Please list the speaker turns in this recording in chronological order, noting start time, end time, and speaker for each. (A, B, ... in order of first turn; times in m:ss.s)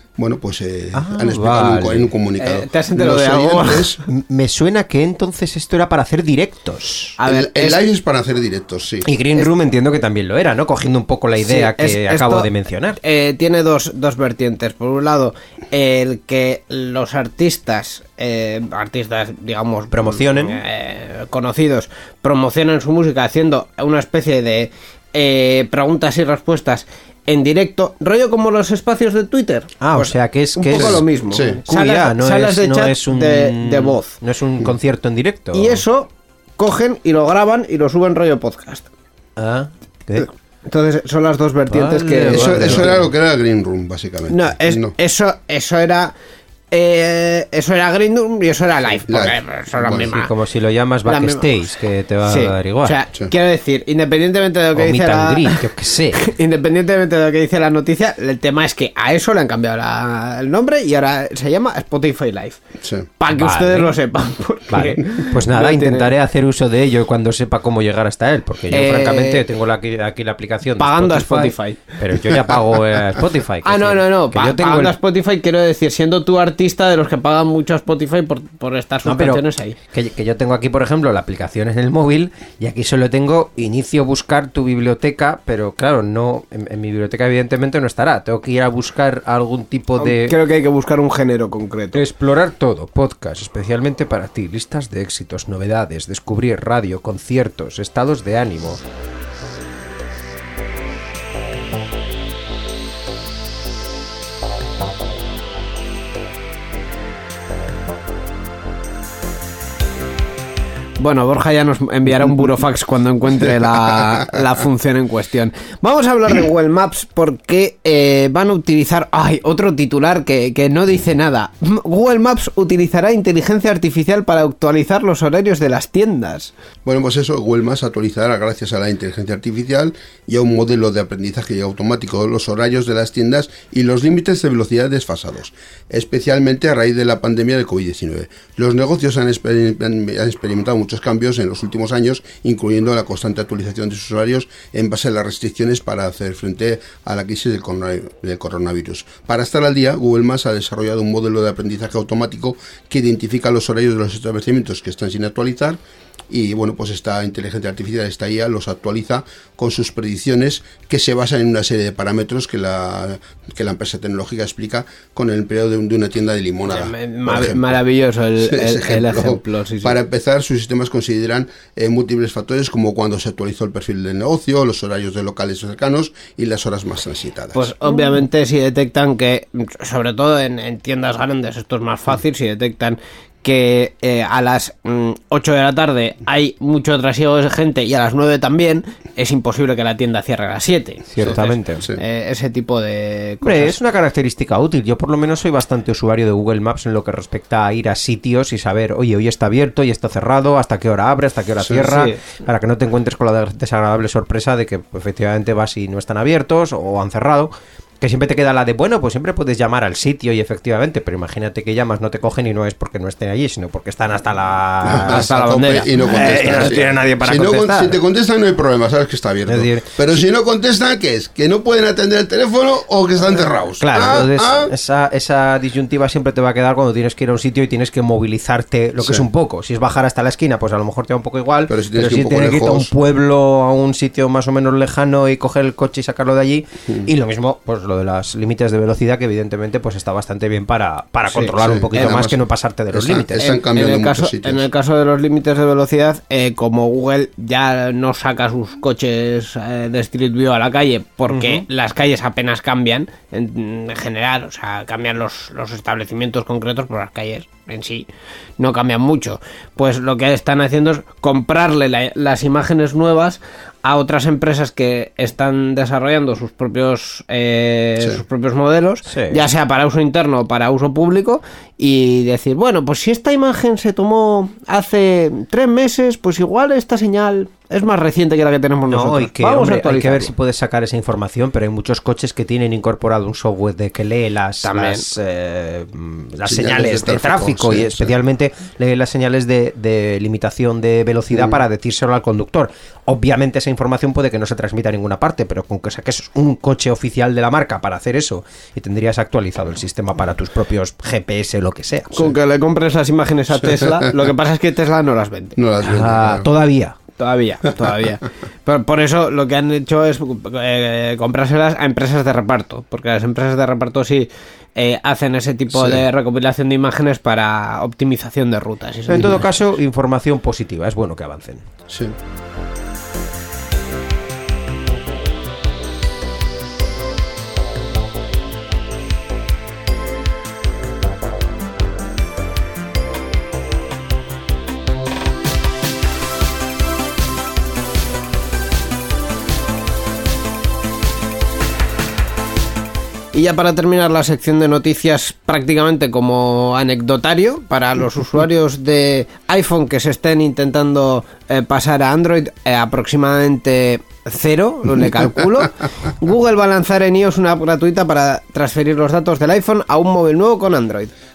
0:00.2-0:04.0 A
0:00.9-0:02.1 B
0:02.4-0:03.9 C
0:04.1-0:07.2 B
0:07.2-0:07.8 C
0:07.2-0:09.1 A
0:09.0-0:13.0 B
0:11.5-0:12.5 C
0:13.0-0:34.1 C
0:19.9-0:20.6 B
0:29.8-0:35.8 B
0:30.7-0:31.6 A
0:35.5-0:38.9 C
0:39.4-0:40.3 B
0:40.2-0:43.0 C
0:41.7-0:43.0 B
0:42.3-0:44.9 A
0:44.3-0:46.1 C
0:46.7-0:50.3 C
0:49.1-0:50.1 A
0:50.0-0:53.0 B
0:51.0-0:51.6 C
0:52.3-0:55.6 C
0:54.8-0:56.2 B
0:56.2-1:02.6 C
1:02.8-1:03.1 A
1:03.2-1:06.1 C
1:03.4-1:04.0 B
1:04.7-1:15.0 B
1:08.7-1:09.4 C
1:10.8-1:12.0 C
1:13.6-1:19.8 C
1:19.0-1:30.4 B
1:30.0-1:32.0 C
1:31.9-1:38.8 B
1:51.0-2:06.5 C
2:06.8-2:47.8 A
2:46.7-2:50.0 C
2:48.4-2:57.7 A
2:57.6-3:13.8 C
3:11.1-3:11.9 B
3:11.2-3:12.0 A
3:13.4-3:38.0 B
3:21.8-3:22.2 C
3:34.8-3:44.7 A
3:35.0-3:36.8 C
3:39.5-3:40.0 B
3:43.8-4:03.5 B
3:51.7-3:52.9 A
4:01.3-4:02.2 C
4:01.6-4:02.4 A
4:02.9-4:04.7 A
4:03.4-4:18.1 C
4:11.3-4:11.6 B
4:18.6-4:40.3 C
4:29.1-4:29.5 B
4:38.9-5:02.3 B
4:44.6-4:45.1 C
4:46.5-4:48.1 A
5:02.2-5:05.6 C
5:05.6-5:06.5 A
5:05.8-5:07.0 B
5:07.2-5:19.4 C
5:15.8-5:16.0 A
5:19.1-5:21.7 B
5:19.2-5:19.4 A
5:43.3-6:01.1 C